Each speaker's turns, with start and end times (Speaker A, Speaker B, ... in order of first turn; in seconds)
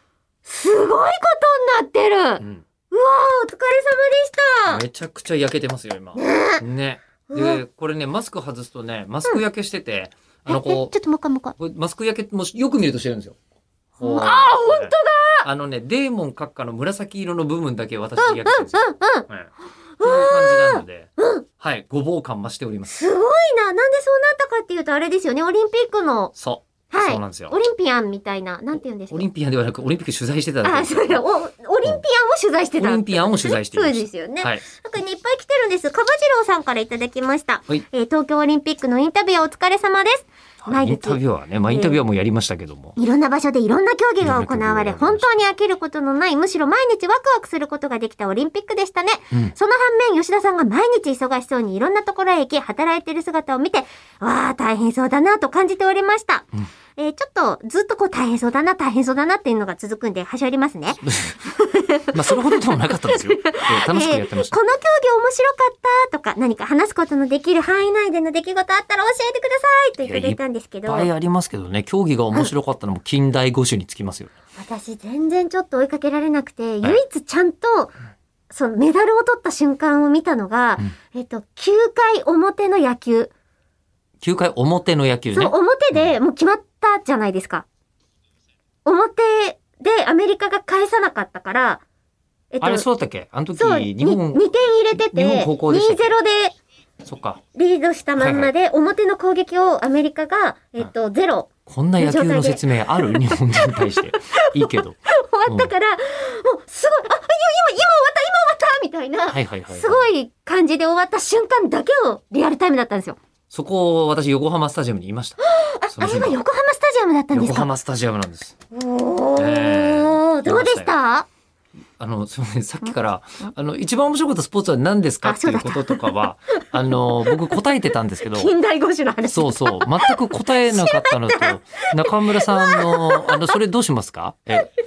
Speaker A: 0.5-4.8, 6.2-6.6, 7.3-7.6, 10.5-11.6, 14.0-15.5, 18.2-19.3, 20.0-21.4, 22.9-26.3, 26.9-29.3, 30.6-42.0, 43.0-71.1, 74.6-77.9, 78.5-83.3, 85.3-87.7, 88.8-91.8, 92.5-92.9, 93.6-96.6, 97.5-104.5, 105.1-113.2, 115.4-117.7, 118.7-121.3, 125.2-127.6, 128.2-133.6
Speaker B: 4.7-10.9, 11.6-13.4, 14.0-19.5, 20.0-23.0, 26.4-27.6, 29.1-31.2, 32.8-34.6, 40.6-43.0, 44.2-45.3, 61.0-61.4, 62.1-64.6, 70.0-74.3, 84.2-86.2, 92.6-94.5, 95.1-96.1, 97.0-97.4, 98.2-98.5, 101.7-105.0, 109.3-110.1, 113.5-116.4, 117.3-118.5, 119.4-121.0, 122.0-128.5, 129.3-134.7